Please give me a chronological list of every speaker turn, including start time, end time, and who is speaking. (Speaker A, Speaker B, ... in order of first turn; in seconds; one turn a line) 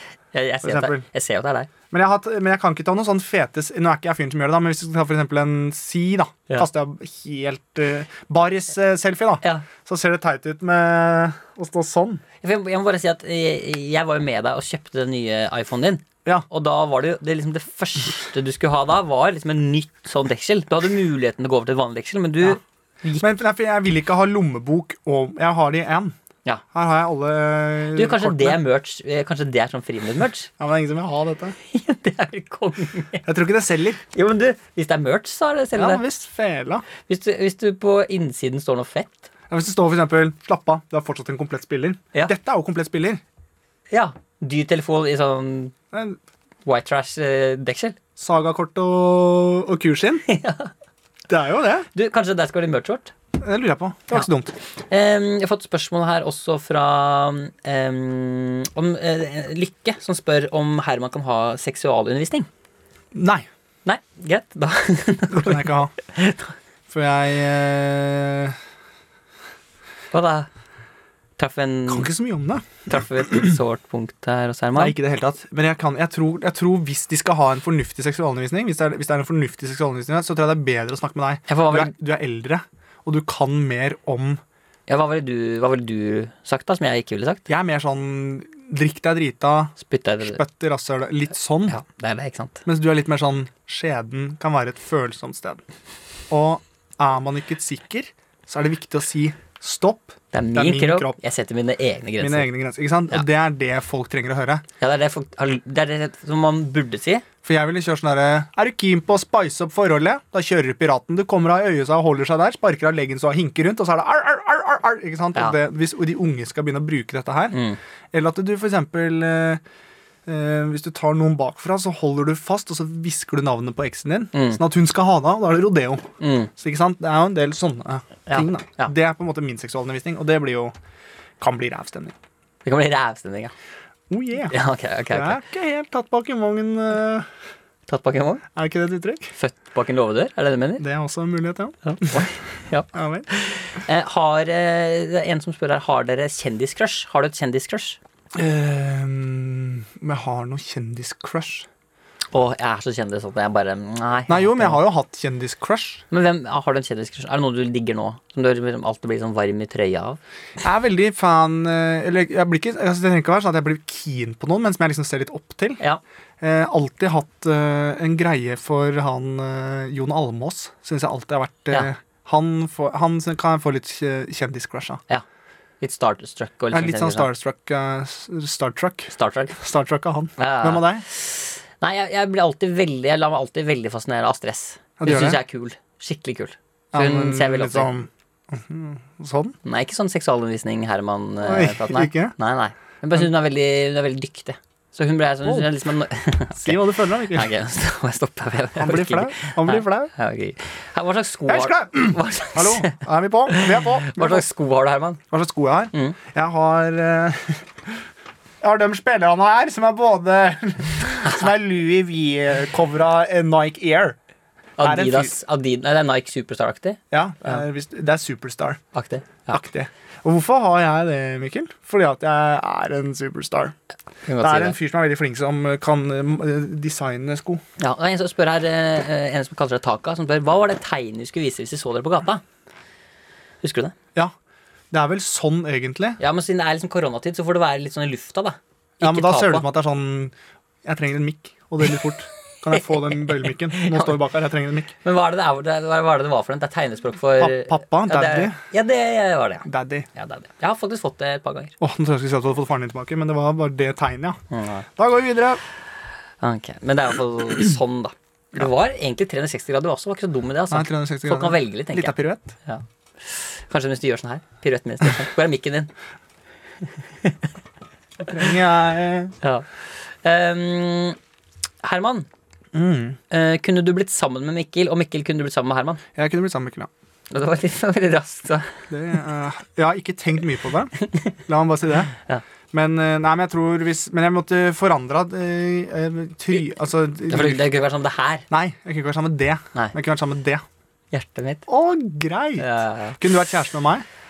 Speaker A: 0.3-1.7
Speaker B: 0.6-1.0
Speaker B: 1.9-12.2
Speaker A: 12.4-23.2
Speaker B: 23.2-26.1
Speaker B: 26.7-28.6
Speaker A: 27.9-30.5
Speaker B: 30.6-31.6
Speaker A: 31.7-33.2
Speaker B: 33.2-34.0
Speaker A: 34.1-36.0
Speaker B: 35.8-36.9
Speaker A: 37.0-39.3
Speaker B: 39.5-43.2
Speaker A: 43.9-45.7
Speaker B: 45.9-46.2
Speaker A: 46.6-48.0
Speaker B: 48.2-50.2
Speaker A: 50.3-50.7
Speaker B: 51.3-51.9
Speaker A: 51.9-53.1
Speaker B: 53.4-54.5
Speaker A: 54.9-62.5
Speaker B: 63.1-63.5
Speaker A: 63.8-66.5
Speaker B: 65.3-65.9
Speaker B: 66.9-68.5
Speaker A: 70.1-70.5
Speaker A: 71.4-72.1
Speaker B: 71.9-73.6
Speaker A: 72.9-74.9
Speaker B: 74.7-84.4
Speaker A: 81.5-81.9
Speaker A: 84.9-87.4
Speaker B: 87.5-91.8
Speaker A: 89.8-90.4
Speaker A: 91.7-92.6
Speaker B: 92.7-95.6
Speaker B: 96.3-101.2
Speaker A: 100.3-102.5
Speaker B: 102.2-104.6
Speaker A: 104.8-107.2
Speaker B: 107.4-117.6
Speaker A: 117.5-117.8
Speaker B: 118.1-119.6
Speaker B: 120.2-126.0
Speaker A: 124.3-124.6
Speaker A: 126.2-126.5
Speaker B: 126.6-130.7
Speaker A: 128.3-128.9
Speaker B: 131.4-132.1
Speaker A: 132.6-133.5
Speaker B: 134.1-134.5
Speaker A: 134.5-135.4
Speaker B: 135.1-137.3
Speaker A: 137.9-138.4
Speaker B: 138.5-139.3
Speaker A: 139.3-140.8
Speaker B: 140.8-142.3
Speaker A: 141.8-148.0
Speaker B: 142.9-143.3
Speaker B: 148.3-151.7
Speaker A: 152.3-154.8
Speaker B: 154.3-156.0
Speaker A: 156.1-160.2
Speaker B: 160.6-165.8
Speaker B: 166.4-175.0
Speaker A: 175.8-177.3
Speaker B: 176.7-181.0
Speaker A: 179.1-179.6
Speaker A: 180.4-187.9
Speaker B: 185.0-185.4
Speaker B: 186.9-189.6
Speaker A: 189.6-205.2
Speaker B: 191.4-192.3
Speaker B: 196.5-197.5
Speaker B: 198.8-200.1
Speaker B: 201.5-204.4
Speaker B: 205.3-207.7
Speaker B: 208.6-214.2
Speaker A: 214.8-217.6
Speaker B: 214.8-215.3
Speaker B: 217.1-218.8
Speaker A: 218.9-219.6
Speaker B: 219.5-223.7
Speaker A: 224.2-224.8
Speaker B: 224.4-227.6
Speaker A: 227.8-232.4
Speaker A: 233.6-233.9
Speaker B: 234.9-236.2
Speaker A: 236.2-239.7
Speaker B: 239.0-240.3
Speaker B: 240.8-244.9
Speaker A: 242.7-244.2
Speaker A: 245.0-251.7
Speaker B: 247.4-248.6
Speaker B: 249.7-250.1
Speaker B: 251.8-254.4
Speaker A: 254.5-254.8
Speaker B: 255.0-255.6
Speaker A: 256.4-262.1
Speaker B: 260.7-262.6
Speaker A: 262.6-265.9
Speaker B: 268.2-269.3
Speaker A: 270.2-271.2
Speaker A: 271.8-272.3
Speaker B: 272.7-273.2
Speaker A: 273.3-276.0
Speaker B: 276.1-276.9
Speaker A: 277.3-278.7
Speaker B: 278.9-280.9
Speaker B: 281.5-282.1
Speaker B: 282.7-287.7
Speaker A: 287.3-288.4
Speaker B: 288.5-290.6
Speaker A: 291.1-291.6
Speaker B: 291.7-294.1
Speaker A: 292.6-293.2